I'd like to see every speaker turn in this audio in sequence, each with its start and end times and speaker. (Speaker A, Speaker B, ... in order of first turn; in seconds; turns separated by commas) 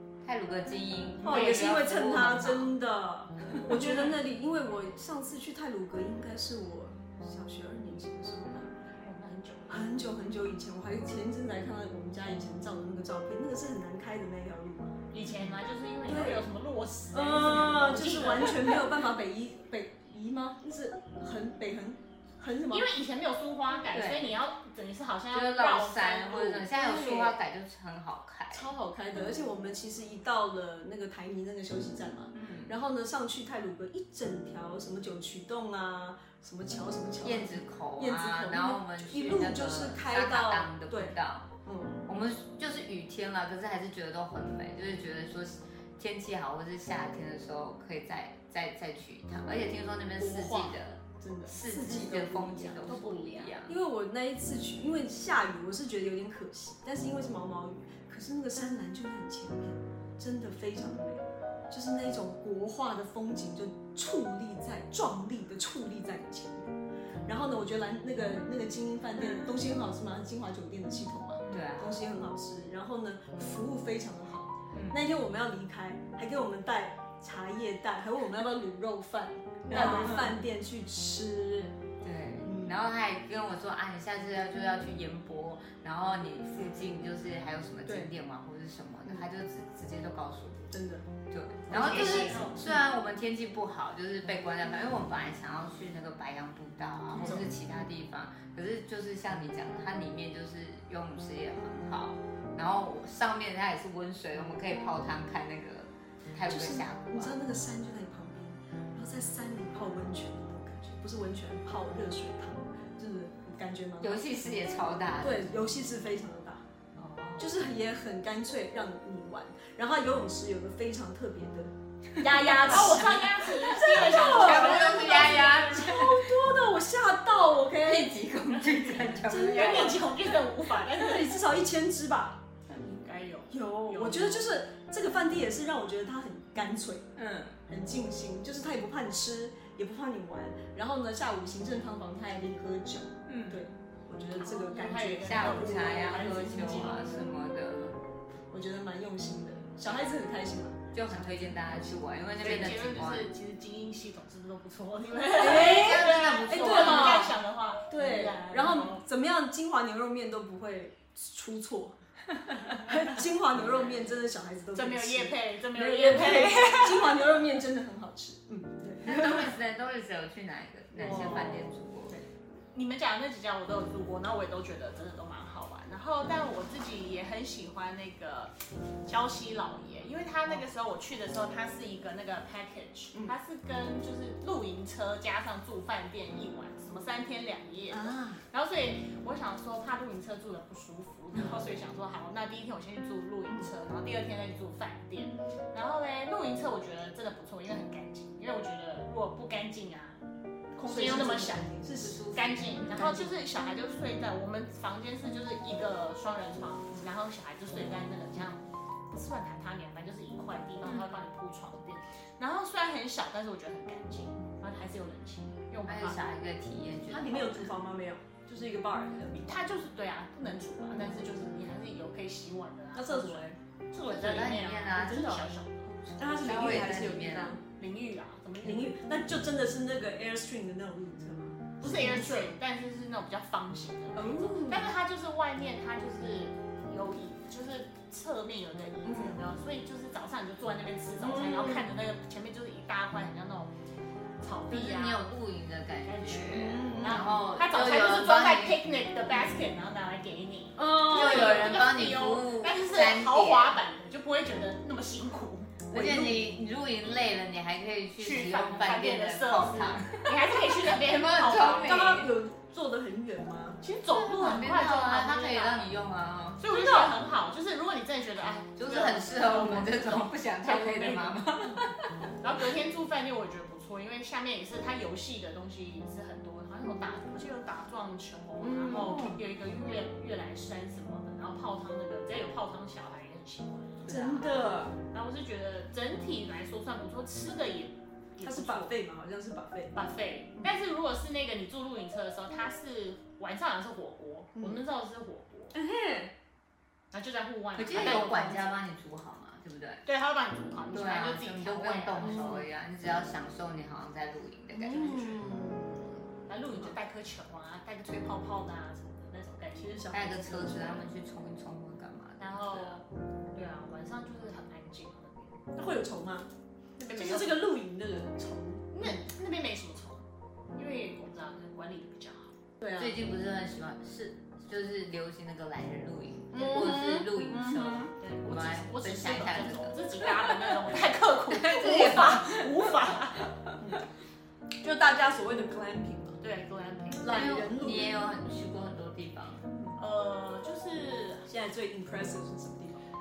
Speaker A: 0.2-2.8, Speaker B: 1.2-8.8, Speaker C: 3.8-4.1, Speaker C: 9.0-9.8, Speaker B: 9.7-14.9, Speaker C: 15.1-18.8, Speaker A: 15.2-15.5, Speaker B: 16.1-16.4, Speaker B: 17.1-22.9, Speaker C: 22.7-27.1, Speaker A: 23.9-24.3, Speaker A: 25.3-28.7, Speaker B: 26.8-27.4, Speaker B: 28.5-42.0, Speaker A: 32.3-32.8, Speaker A: 37.2-41.5, Speaker A: 42.1-53.8, Speaker B: 50.2-52.9, Speaker C: 52.9-53.5, Speaker B: 53.7-66.7, Speaker B: 67.2-81.8, Speaker C: 69.2-69.6, Speaker C: 71.4-71.7, Speaker A: 71.5-72.0, Speaker A: 74.7-75.0, Speaker A: 79.7-80.3, Speaker C: 79.7-80.4, Speaker A: 82.0-90.7, Speaker B: 82.4-82.8, Speaker B: 86.6-86.9, Speaker B: 87.8-88.1, Speaker B: 90.7-91.1, Speaker A: 91.3-107.4, Speaker C: 91.7-92.8, Speaker B: 91.7-92.8, Speaker B: 97.1-97.5, Speaker B: 106.5-114.2, Speaker A: 114.0-115.5, Speaker B: 115.2-116.6, Speaker C: 117.0-117.5, Speaker B: 117.4-128.1, Speaker A: 122.2-123.2, Speaker C: 122.6-125.9, Speaker A: 123.9-126.3, Speaker A: 127.8-130.2, Speaker B: 129.2-130.1, Speaker C: 129.4-131.4, Speaker B: 130.9-132.4, Speaker C: 132.7-134.5, Speaker B: 133.5-137.0, Speaker A: 137.2-137.6, Speaker B: 137.7-146.7, Speaker A: 143.3-143.6, Speaker C: 144.4-147.1, Speaker A: 145.2-148.0, Speaker B: 148.5-151.6, Speaker A: 150.9-153.3, Speaker C: 152.4-159.0, Speaker B: 155.4-161.9, Speaker A: 155.4-157.4, Speaker B: 162.7-169.5, Speaker C: 164.7-167.3, Speaker A: 169.0-172.2, Speaker C: 171.0-171.7, Speaker B: 171.0-171.4, Speaker C: 172.7-200.2, Speaker B: 187.9-188.4, Speaker B: 191.3-191.6, Speaker B: 200.8-202.2, Speaker C: 200.8-216.2, Speaker A: 202.0-203.3, Speaker A: 215.9-217.7, Speaker B: 217.1-219.6, Speaker C: 219.3-225.9, Speaker B: 222.9-223.6, Speaker A: 224.1-225.3, Speaker B: 225.1-225.5, Speaker A: 226.0-227.6, Speaker B: 226.2-227.6, Speaker C: 227.8-228.9, Speaker B: 228.6-232.6, Speaker C: 231.8-243.7, Speaker B: 234.1-234.9, Speaker B: 239.0-239.4, Speaker B: 241.2-241.9, Speaker C: 244.4-245.3, Speaker A: 244.7-248.8, Speaker C: 246.0-255.8, Speaker B: 246.5-247.3, Speaker B: 250.8-251.6, Speaker A: 251.0-253.8, Speaker A: 255.9-260.3, Speaker B: 255.9-256.5, Speaker C: 258.2-261.9, Speaker A: 260.9-262.3, Speaker B: 261.8-263.8, Speaker C: 263.8-265.9, Speaker A: 264.1-267.1, Speaker C: 266.6-271.5, Speaker A: 268.8-271.9, Speaker C: 272.4-289.0, Speaker B: 278.6-279.3, Speaker A: 279.0-279.3, Speaker A: 284.0-284.5, Speaker B: 284.1-285.0, Speaker B: 288.4-289.9, Speaker C: 289.9-295.8, Speaker B: 294.6-294.8, Speaker B: 295.7-296.3, Speaker C: 297.1-298.8, Speaker A: 297.8-300.0, Speaker C: 300.1-302.7, Speaker A: 300.9-305.1, Speaker B: 302.2-302.6, Speaker B: 304.7-306.2, Speaker C: 304.9-305.5, Speaker C: 306.5-310.0, Speaker B: 309.8-311.1, Speaker A: 310.1-313.0, Speaker C: 312.4-315.6, Speaker B: 315.8-316.5, Speaker C: 317.0-317.7, Speaker B: 317.1-319.2, Speaker C: 318.9-322.5, Speaker B: 322.8-323.1, Speaker A: 323.0-330.3, Speaker B: 326.5-328.1, Speaker C: 327.9-333.5, Speaker A: 331.5-332.7, Speaker B: 334.8-336.4, Speaker C: 336.4-337.4, Speaker B: 337.2-338.2, Speaker A: 337.2-339.7, Speaker C: 340.0-341.5, Speaker B: 341.5-343.0